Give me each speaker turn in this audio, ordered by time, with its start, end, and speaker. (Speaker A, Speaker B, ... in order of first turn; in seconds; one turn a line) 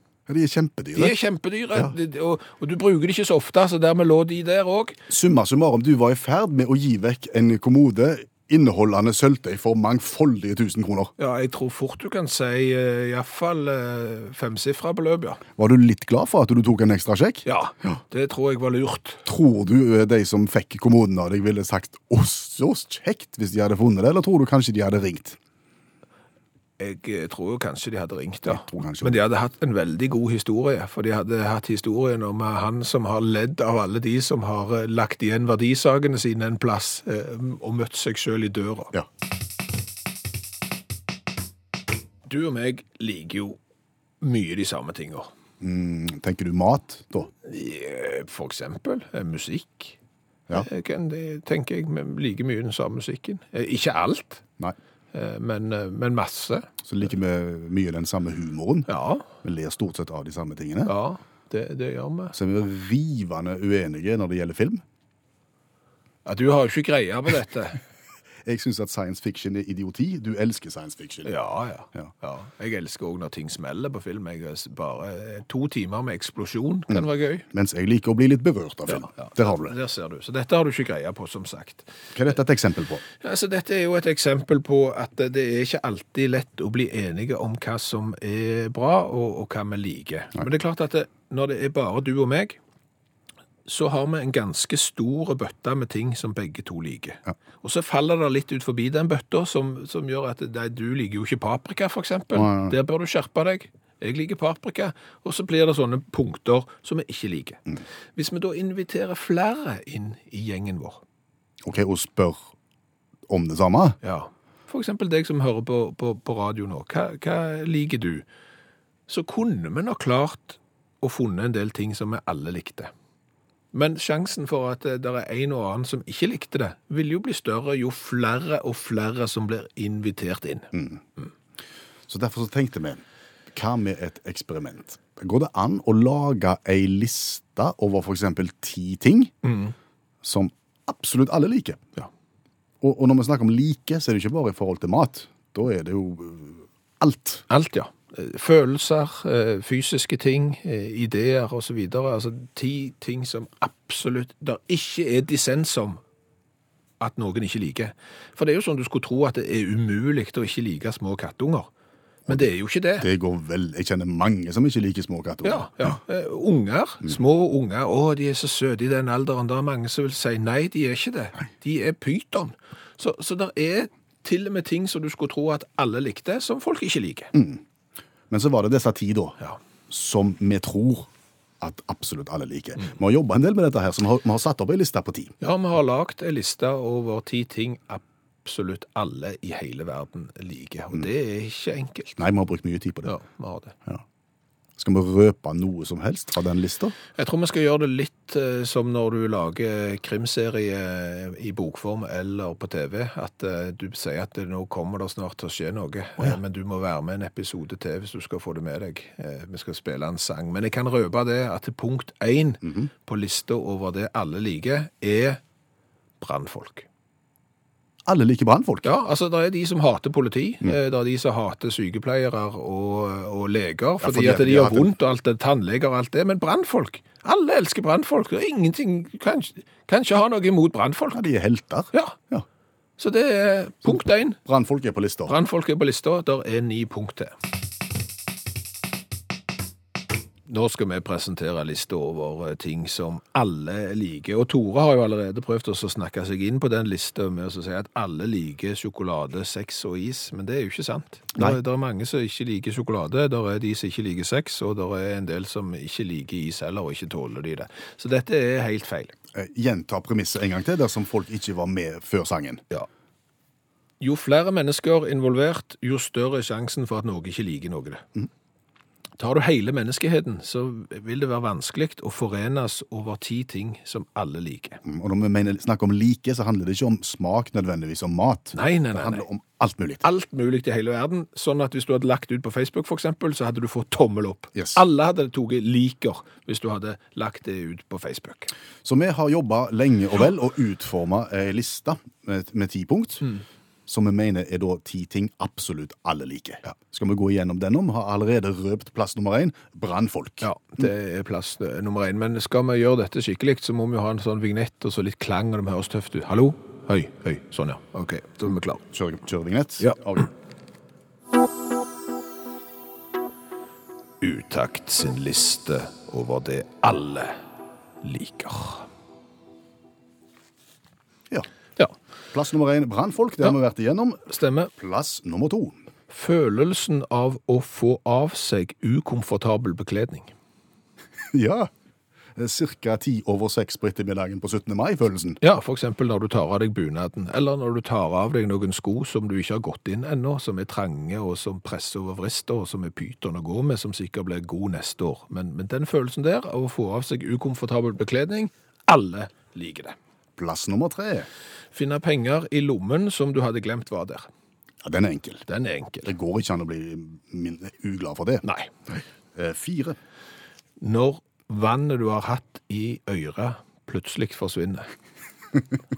Speaker A: 0.3-1.1
Speaker B: 0.9-5.0
Speaker A: 5.1-11.1
Speaker B: 11.2-15.4
Speaker A: 15.6-17.9
Speaker B: 17.4-19.3
Speaker A: 19.3-25.4
Speaker B: 26.8-38.9
Speaker A: 28.5-29.2
Speaker B: 42.3-43.6
Speaker B: 44.2-45.3
Speaker A: 45.6-47.3
Speaker B: 47.4-50.0
Speaker B: 50.5-54.4
Speaker B: 55.1-56.7
Speaker A: 56.9-58.9
Speaker B: 58.9-59.3
Speaker A: 59.4-60.9
Speaker B: 60.9-62.4
Speaker A: 62.3-64.8
Speaker B: 66.2-67.8
Speaker A: 68.5-71.3
Speaker B: 71.2-77.5
Speaker A: 76.9-79.8
Speaker B: 78.9-81.9
Speaker A: 82.1-83.0
Speaker B: 83.2-92.6
Speaker B: 93.7-111.0
Speaker A: 102.3-102.7
Speaker A: 111.6-112.5
Speaker A: 113.3-114.0
Speaker B: 114.0-118.2
Speaker B: 119.1-122.9
Speaker B: 123.7-130.7
Speaker A: 130.7-131.0
Speaker A: 132.1-139.3
Speaker B: 139.4-139.7
Speaker A: 140.2-141.8
Speaker A: 142.8-147.4
Speaker B: 147.5-156.0
Speaker B: 157.0-161.7
Speaker B: 162.3-163.1
Speaker A: 163.0-165.9
Speaker B: 165.4-177.3
Speaker A: 177.3-177.6
Speaker A: 178.3-179.4
Speaker A: 179.9-181.1
Speaker A: 181.6-185.3
Speaker B: 185.4-192.2
Speaker A: 192.2-193.1
Speaker B: 193.1-193.8
Speaker A: 194.8-196.9
Speaker B: 197.2-215.4
Speaker A: 212.6-212.9
Speaker B: 216.2-216.9
Speaker A: 218.1-218.9
Speaker B: 218.8-231.2
Speaker A: 224.0-224.9
Speaker A: 231.1-232.4
Speaker B: 233.0-234.4
Speaker A: 233.8-235.3
Speaker B: 235.3-237.3
Speaker B: 240.5-259.1
Speaker A: 259.3-262.6
Speaker B: 264.0-268.1
Speaker B: 269.2-274.8
Speaker A: 274.8-280.0
Speaker B: 278.5-279.2
Speaker B: 280.0-288.5
Speaker A: 284.6-284.8
Speaker A: 288.8-293.3
Speaker A: 293.9-300.5
Speaker B: 300.4-308.8
Speaker A: 308.9-310.3
Speaker B: 314.2-317.4
Speaker B: 318.0-318.9
Speaker A: 322.3-325.8
Speaker B: 324.3-324.7
Speaker B: 326.1-330.3
Speaker A: 331.3-331.7
Speaker A: 332.4-335.4
Speaker B: 335.4-350.0
Speaker A: 350.4-351.3
Speaker B: 351.7-354.3
Speaker A: 354.8-355.4
Speaker B: 355.5-356.1
Speaker A: 356.1-360.0
Speaker B: 358.4-358.7
Speaker B: 360.8-364.9